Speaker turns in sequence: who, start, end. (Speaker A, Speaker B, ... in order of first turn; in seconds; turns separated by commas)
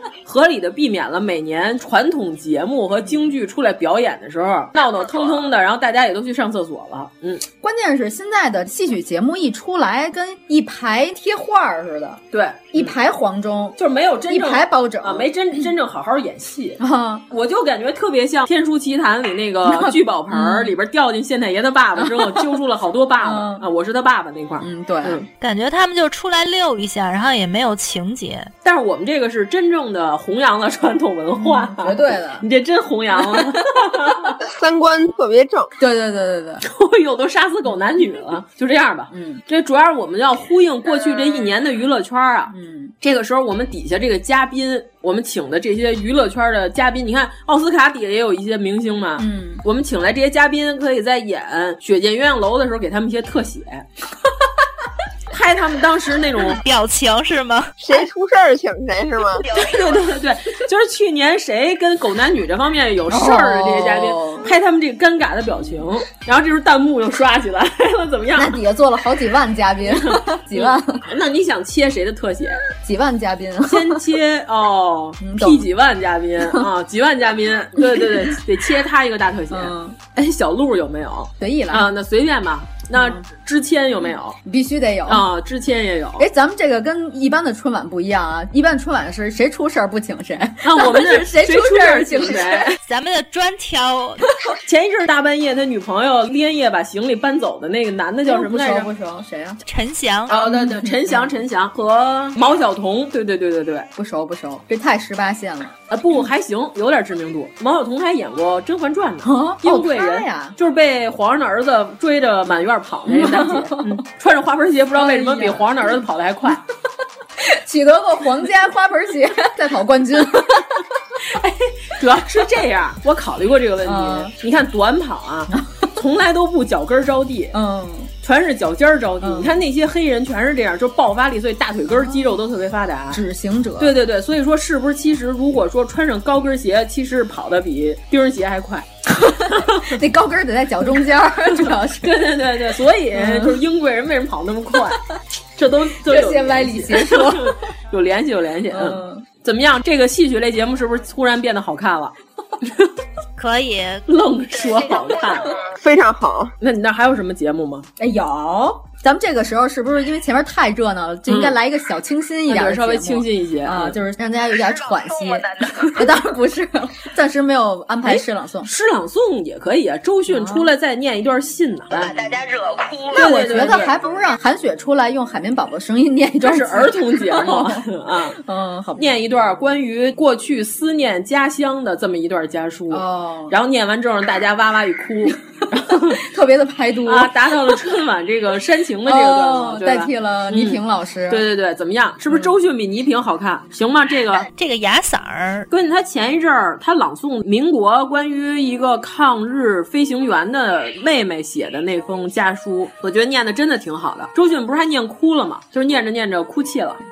Speaker A: 0.2-7.4, Speaker B: 7.6-12.2, Speaker A: 12.3-12.9, Speaker B: 12.7-13.8, Speaker A: 13.8-25.3, Speaker B: 14.3-15.3, Speaker B: 16.8-17.2, Speaker B: 19.6-20.7, Speaker B: 22.0-22.4, Speaker B: 23.2-23.6, Speaker B: 24.6-25.2, Speaker C: 25.4-28.5, Speaker A: 28.6-34.4, Speaker B: 31.4-32.4, Speaker B: 33.2-33.5, Speaker D: 34.5-35.7, Speaker B: 35.8-36.6, Speaker A: 36.6-53.9, Speaker B: 39.1-39.4, Speaker B: 42.5-42.9, Speaker B: 49.2-49.6, Speaker A: 55.3-56.6, Speaker C: 56.5-57.7, Speaker D: 57.8-59.5, Speaker E: 59.4-60.1, Speaker A: 59.5-68.6, Speaker B: 63.1-64.5, Speaker B: 68.3-71.0, Speaker A: 69.8-72.6, Speaker B: 72.8-74.0, Speaker A: 73.7-84.4, Speaker B: 75.2-75.7, Speaker B: 77.8-78.4, Speaker B: 79.5-80.0, Speaker B: 81.4-81.8, Speaker B: 82.9-83.2, Speaker B: 84.4-85.3, Speaker A: 85.1-86.2, Speaker B: 86.2-92.7, Speaker A: 90.6-92.8, Speaker C: 92.8-94.2, Speaker A: 94.6-98.9, Speaker B: 98.2-99.6, Speaker C: 99.7-100.3, Speaker A: 100.3-103.9, Speaker B: 100.3-101.3, Speaker B: 104.0-105.7, Speaker A: 105.9-116.6, Speaker B: 109.2-110.5, Speaker B: 113.1-114.0, Speaker B: 114.9-115.8, Speaker B: 117.4-120.8, Speaker A: 121.2-127.5, Speaker B: 123.8-124.3, Speaker B: 127.5-128.1, Speaker A: 128.2-133.2, Speaker B: 129.2-129.5, Speaker B: 131.9-132.2, Speaker B: 133.1-133.9, Speaker A: 133.8-138.8, Speaker B: 139.1-142.2, Speaker A: 139.5-139.9, Speaker A: 141.6-145.0, Speaker B: 143.1-143.6, Speaker A: 145.6-152.1, Speaker B: 146.0-147.5, Speaker B: 148.7-149.2, Speaker C: 153.4-154.0, Speaker A: 154.1-155.5, Speaker E: 154.6-155.5, Speaker D: 155.7-156.5, Speaker A: 156.6-157.9, Speaker B: 158.0-168.7, Speaker A: 161.3-161.6, Speaker A: 162.5-163.9, Speaker E: 164.5-166.0, Speaker A: 168.1-172.1, Speaker B: 170.3-170.7, Speaker E: 171.9-173.3, Speaker A: 173.1-173.9, Speaker B: 173.2-179.1, Speaker A: 176.4-178.3, Speaker A: 179.0-186.2, Speaker B: 182.9-183.5, Speaker B: 185.9-187.3, Speaker A: 187.0-194.5, Speaker B: 189.1-191.4, Speaker C: 194.5-195.7, Speaker A: 195.7-207.0